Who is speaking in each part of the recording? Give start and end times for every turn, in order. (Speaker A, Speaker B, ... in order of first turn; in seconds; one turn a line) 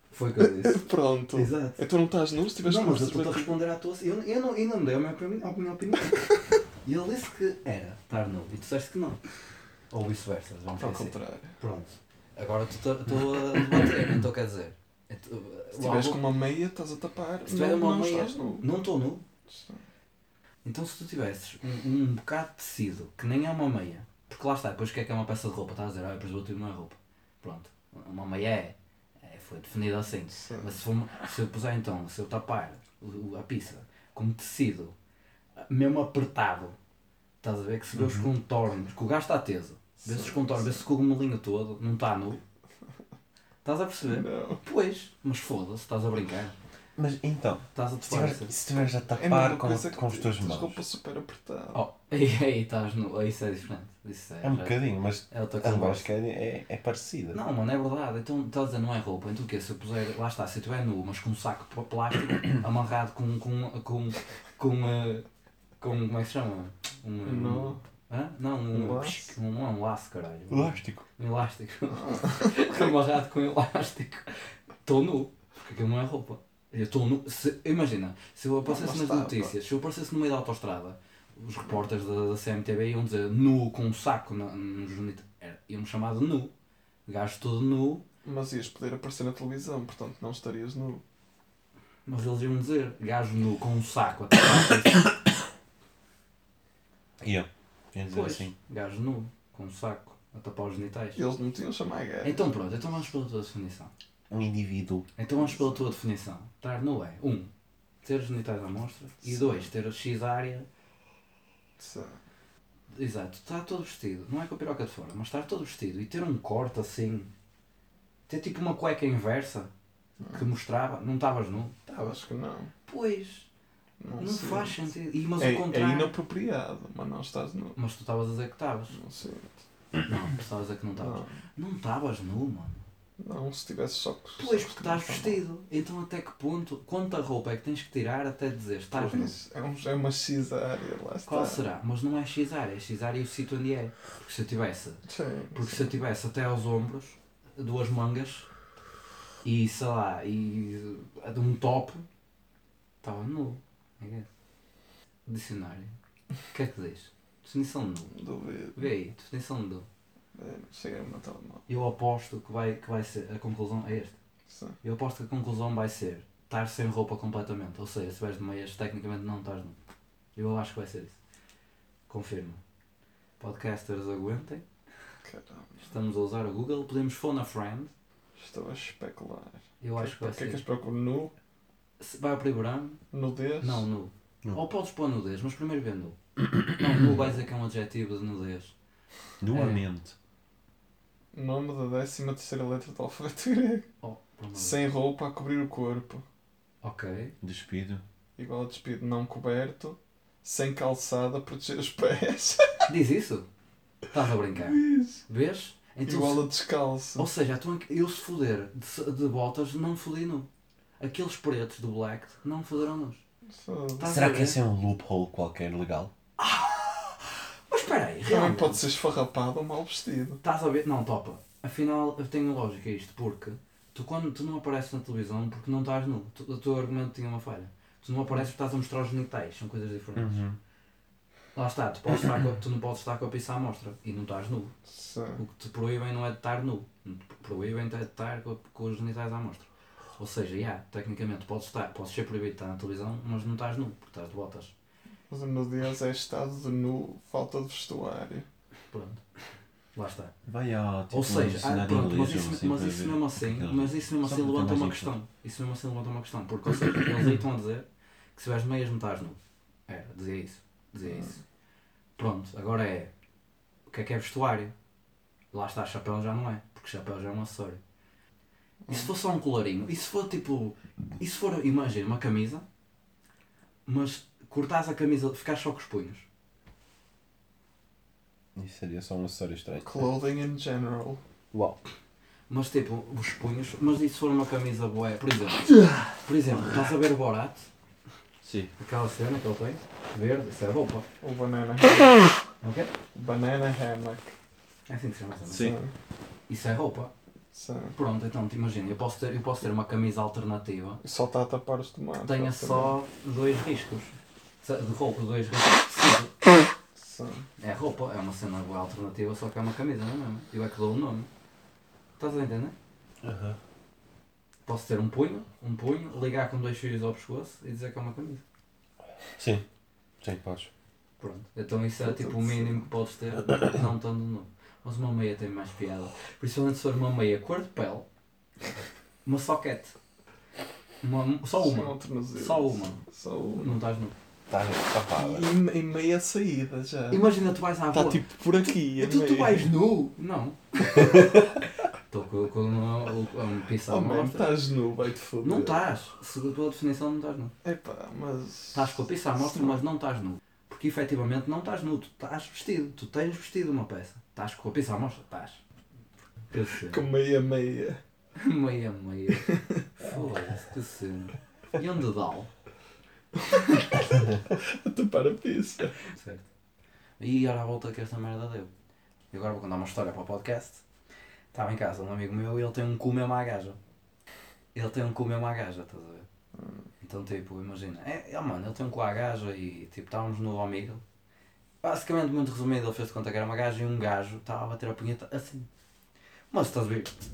Speaker A: 0.1-1.8
Speaker B: 0.4-3.5
Speaker A: 2.6-6.3
Speaker A: 6.8-16.2
Speaker B: 10.8-11.6
Speaker B: 15.7-18.7
Speaker A: 17.4-19.2
Speaker B: 19.5-19.8
Speaker A: 20.6-34.9
Speaker B: 30.4-30.8
Speaker A: 35.7-36.8
Speaker A: 37.4-42.4
Speaker C: 37.9-38.3
Speaker B: 40.0-40.8
Speaker A: 43.6-46.6
Speaker B: 44.1-44.6
Speaker C: 47.0-50.8
Speaker A: 47.7-48.5
Speaker B: 49.1-51.8
Speaker A: 51.7-56.1
Speaker C: 54.4-57.4
Speaker A: 57.3-65.2
Speaker A: 65.8-86.5
Speaker B: 67.2-67.8
Speaker B: 68.7-69.3
Speaker C: 70.5-71.0
Speaker B: 71.9-72.9
Speaker B: 78.6-79.5
Speaker A: 87.0-88.0
Speaker B: 88.2-91.0
Speaker A: 92.0-95.0
Speaker C: 97.2-98.5
Speaker A: 98.1-101.2
Speaker B: 101.2-102.7
Speaker A: 102.2-103.9
Speaker C: 104.3-105.1
Speaker A: 105.2-107.5
Speaker B: 105.4-105.8
Speaker A: 108.0-110.7
Speaker B: 109.2-109.7
Speaker B: 111.8-112.2
Speaker A: 112.9-117.3
Speaker A: 118.3-119.7
Speaker A: 120.3-122.2
Speaker B: 121.9-122.7
Speaker A: 122.8-123.5
Speaker B: 124.0-124.9
Speaker A: 124.2-126.1
Speaker B: 125.4-127.8
Speaker A: 127.7-128.9
Speaker B: 128.9-129.6
Speaker A: 130.0-132.8
Speaker B: 131.0-131.4
Speaker B: 133.2-135.4
Speaker A: 134.4-139.3
Speaker B: 138.9-141.6
Speaker A: 141.2-148.5
Speaker B: 145.1-145.9
Speaker A: 149.4-152.1
Speaker A: 153.0-154.3
Speaker A: 155.2-158.2
Speaker B: 158.1-158.9
Speaker A: 158.7-159.9
Speaker B: 160.3-161.6
Speaker A: 161.7-164.2
Speaker B: 164.5-164.8
Speaker A: 164.8-169.8
Speaker A: 170.3-171.2
Speaker A: 172.1-172.6
Speaker A: 173.4-175.1
Speaker B: 175.2-175.8
Speaker A: 175.8-177.9
Speaker B: 178.3-181.3
Speaker A: 179.8-180.6
Speaker A: 182.0-183.0
Speaker B: 183.1-183.8
Speaker A: 183.6-188.7
Speaker C: 186.9-187.2
Speaker C: 189.4-190.1
Speaker A: 189.5-189.8
Speaker B: 191.3-193.9
Speaker A: 194.0-194.8
Speaker B: 194.5-196.2
Speaker A: 196.8-197.3
Speaker C: 197.4-198.0
Speaker B: 198.4-202.9
Speaker A: 202.9-203.5
Speaker A: 204.1-206.4
Speaker B: 204.6-205.2
Speaker B: 206.0-207.3
Speaker A: 207.2-213.2
Speaker B: 213.5-214.2
Speaker A: 214.0-214.6
Speaker C: 214.1-216.1
Speaker A: 216.4-218.8
Speaker B: 218.3-220.4
Speaker A: 220.4-230.4
Speaker C: 230.2-230.6
Speaker A: 231.5-234.8
Speaker B: 234.9-235.4
Speaker A: 235.4-244.7
Speaker B: 245.3-248.5
Speaker A: 248.9-250.4
Speaker C: 250.4-255.2
Speaker A: 251.1-261.4
Speaker B: 261.0-261.3
Speaker A: 262.1-263.1
Speaker A: 263.9-264.7
Speaker A: 265.5-267.8
Speaker B: 268.8-269.1
Speaker A: 268.9-272.6
Speaker A: 273.9-276.2
Speaker C: 278.5-280.1
Speaker B: 279.8-281.2
Speaker C: 281.5-281.8
Speaker A: 282.5-287.7
Speaker C: 288.4-288.7
Speaker A: 288.8-291.1
Speaker B: 291.2-292.3
Speaker A: 292.6-292.9
Speaker B: 293.1-294.3
Speaker A: 294.9-295.8
Speaker C: 295.5-295.8
Speaker B: 295.5-295.9
Speaker A: 296.5-297.1
Speaker B: 297.5-297.9
Speaker A: 297.9-301.0
Speaker B: 301.0-302.9
Speaker A: 302.1-306.5
Speaker B: 306.9-307.5
Speaker A: 307.6-311.3
Speaker A: 312.2-312.7
Speaker C: 313.2-313.6
Speaker A: 314.6-318.4
Speaker C: 319.3-319.6
Speaker C: 320.2-320.7
Speaker A: 321.2-328.1
Speaker B: 322.0-322.9
Speaker A: 329.2-330.0
Speaker A: 331.0-334.1
Speaker B: 331.5-333.8
Speaker C: 334.5-335.5
Speaker B: 335.1-337.3
Speaker A: 337.1-344.5
Speaker B: 337.9-339.7
Speaker B: 343.9-345.9
Speaker A: 345.4-347.5
Speaker B: 347.6-349.8
Speaker A: 348.7-355.6
Speaker A: 356.5-357.0
Speaker B: 356.7-358.0
Speaker A: 358.4-362.5
Speaker B: 359.4-359.9
Speaker B: 363.5-365.9
Speaker A: 366.0-366.5
Speaker A: 367.2-368.7
Speaker A: 369.3-370.8
Speaker A: 371.5-373.8
Speaker A: 374.7-376.3
Speaker B: 376.5-376.8
Speaker A: 377.0-381.0
Speaker A: 381.8-385.7
Speaker A: 386.5-387.1